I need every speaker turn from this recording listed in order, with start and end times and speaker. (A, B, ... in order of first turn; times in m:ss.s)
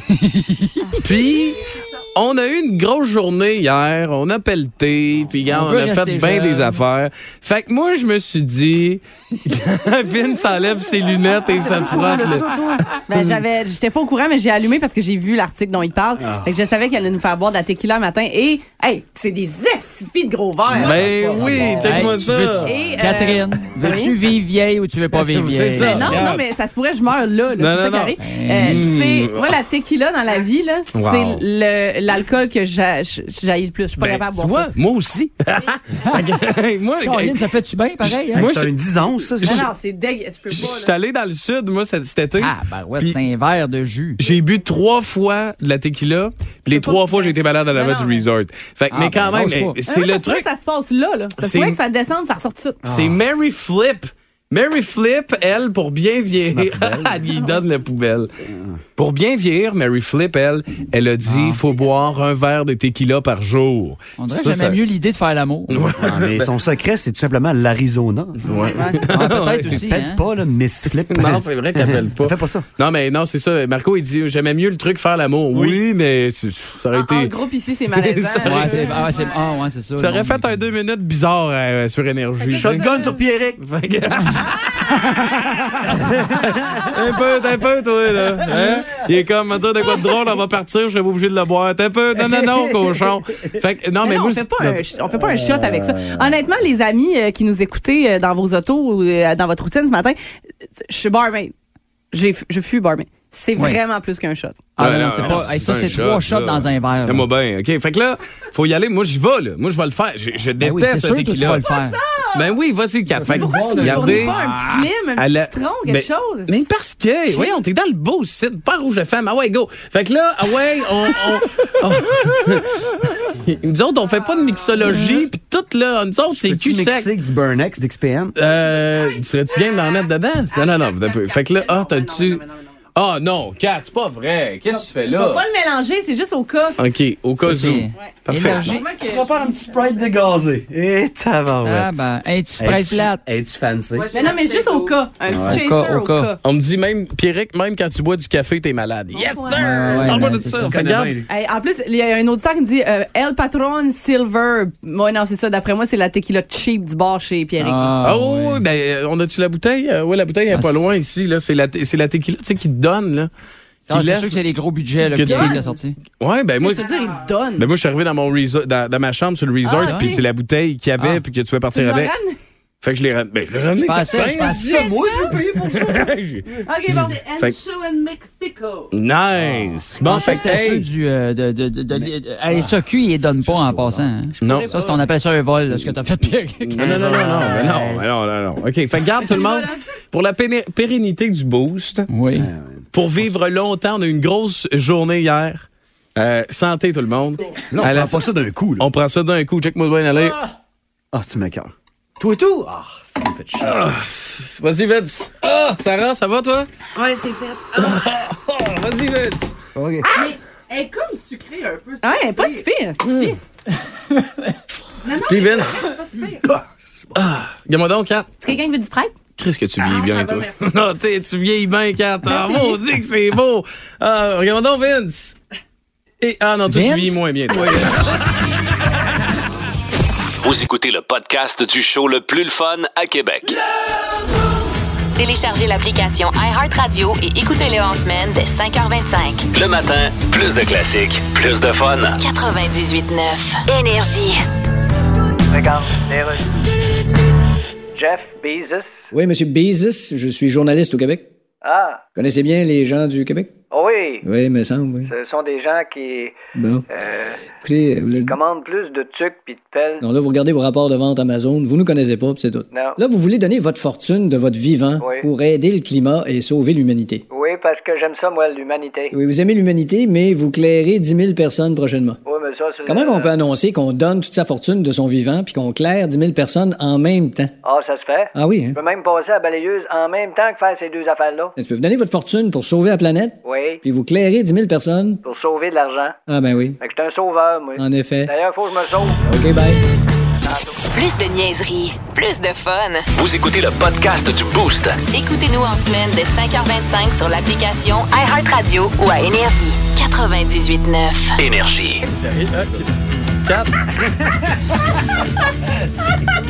0:00.1-0:01.0 A
0:01.0-0:13.3 B
0:05.5-0:06.8 A
0:11.6-0:12.8 C
0:13.1-0:24.1 D
0:16.2-0:16.5 C
0:20.7-0:22.7 B
0:20.9-0:21.5 C
0:21.8-0:26.3 A
0:25.3-0:26.4 B
0:25.7-0:34.7 D
0:27.6-0:29.5 B
0:28.2-0:28.8 A
0:30.9-0:31.4 B
0:34.0-0:37.5 B
0:37.0-0:38.4 A
0:38.0-0:38.7 B
0:38.3-0:39.7 C
0:39.4-0:40.9 D
0:39.4-0:39.7 B
0:40.5-0:43.2 B
0:42.4-0:44.2 A
0:44.2-0:50.4 B
0:46.7-0:48.2 D
0:48.9-0:49.8 A
0:49.9-0:52.8 D
0:51.4-0:51.8 B
0:52.8-0:53.2 C
0:52.8-0:58.3 B
0:56.4-0:57.3 C
0:58.4-0:58.8 C
0:59.0-1:04.8 B
1:01.2-1:01.6 A
1:04.2-1:05.9 A
1:05.7-1:06.5 B
1:05.9-1:08.4 C
1:08.4-1:09.9 B
1:08.5-1:09.0 D
1:09.1-1:10.2 A
1:09.7-1:12.6 C
1:11.1-1:17.3 B
1:15.5-1:15.8 C
1:16.9-1:18.9 D
1:18.0-1:18.9 B
1:18.4-1:20.5 A
1:20.0-1:22.9 B
1:22.5-1:23.6 C
1:23.6-1:34.8 B
1:26.1-1:26.9 C
1:28.4-1:29.0 C
1:32.2-1:33.5 C
1:34.0-1:40.2 D
1:35.1-1:36.3 C
1:40.8-1:41.5 D
1:42.1-1:44.6 D
1:44.8-1:47.3 A
1:44.8-1:51.6 B
1:45.4-1:45.8 C
1:50.6-1:52.0 A
1:51.9-1:52.5 D
1:52.3-2:07.1 B
1:53.3-1:56.6 D
1:53.4-1:53.9 C
1:53.8-1:54.3 A
1:57.3-1:57.6 D
2:06.3-2:08.3 C
2:08.3-2:12.4 B
2:10.6-2:12.5 E
2:12.9-2:15.4 B
2:15.1-2:16.8 D
2:16.8-2:18.8 B
2:17.4-2:18.8 A
2:17.9-2:19.2 D
2:18.8-2:19.5 E
2:19.0-2:22.0 C
2:21.6-2:23.2 A
2:22.6-2:24.1 C
2:24.0-2:25.0 E
2:24.1-2:26.4 D
2:25.3-2:25.6 C
2:25.3-2:26.3 A
2:26.4-2:31.2 B
2:29.5-2:30.8 A
2:30.0-2:31.3 C
2:31.3-2:38.0 D
2:37.6-2:38.6 A
2:38.0-2:43.3 B
2:40.5-2:40.8 A
2:43.9-2:46.0 A
2:43.9-2:44.4 B
2:45.0-2:45.6 B
2:45.2-2:45.7 D
2:46.2-2:46.9 B
2:46.6-2:47.7 D
2:47.6-2:52.1 B
2:49.6-2:50.2 D
2:49.8-2:50.1 A
2:51.7-2:52.4 D
2:52.8-2:56.5 B
2:53.8-2:54.9 A
2:54.3-2:56.1 C
2:56.6-2:57.2 D
2:56.9-2:58.9 E
2:58.9-3:00.9 B
2:59.3-2:59.8 C
3:00.0-3:07.6 A
3:01.9-3:04.6 C
3:04.4-3:05.0 B
3:05.7-3:12.1 B
3:06.8-3:08.1 C
3:12.1-3:12.5 A
3:12.3-3:12.9 C
3:12.9-3:18.2 B
3:17.7-3:18.9 C
3:18.8-3:20.4 B
3:21.1-3:23.8 C
3:23.6-3:26.7 B
3:26.9-3:28.0 E
3:27.7-3:29.6 B
3:29.7-3:30.1 C
3:30.1-3:32.6 E
3:32.0-3:33.4 D
3:35.0-3:36.4 E
3:35.2-3:35.8 B
3:37.1-3:38.4 B
3:38.4-3:39.1 D
3:39.4-3:45.4 B
3:39.8-3:40.4 E
3:42.2-3:42.8 D
3:46.2-3:48.3 B
3:46.7-3:47.2 A
3:50.4-3:53.6 F
3:55.2-3:59.5 G
3:59.5-4:02.2 F
4:02.2-4:04.4 G
4:05.5-4:06.5 H
4:07.9-4:08.9 H
4:09.1-4:11.2 I
4:11.6-4:12.0 H
4:12.2-4:13.5 I
4:13.7-4:14.2 H
4:14.2-4:15.1 I
4:15.0-4:16.4 H
4:16.6-4:16.8 I
4:16.9-4:17.4 H
4:17.6-4:18.4 I
4:18.2-4:20.1 H
4:20.0-4:27.2 I
4:22.7-4:23.0 H
4:25.0-4:25.3 H
4:27.3-4:29.1 H
4:29.1-4:32.2 I
4:32.2-4:33.4 H
4:32.8-4:37.5 I
4:37.6-4:41.5 H
4:38.3-4:38.8 I
4:41.6-4:45.2 I
4:43.4-4:43.8 H
4:45.2-4:46.2 H
4:46.3-4:46.8 I
4:46.8-4:49.2 H
4:47.7-4:48.3 I
4:49.2-4:49.8 I
4:50.9-4:53.1 G
4:53.1-4:55.0 F
4:55.1-5:01.4 G
5:01.4-5:02.0 F
5:02.0-5:03.7 B
5:04.0-5:04.8 C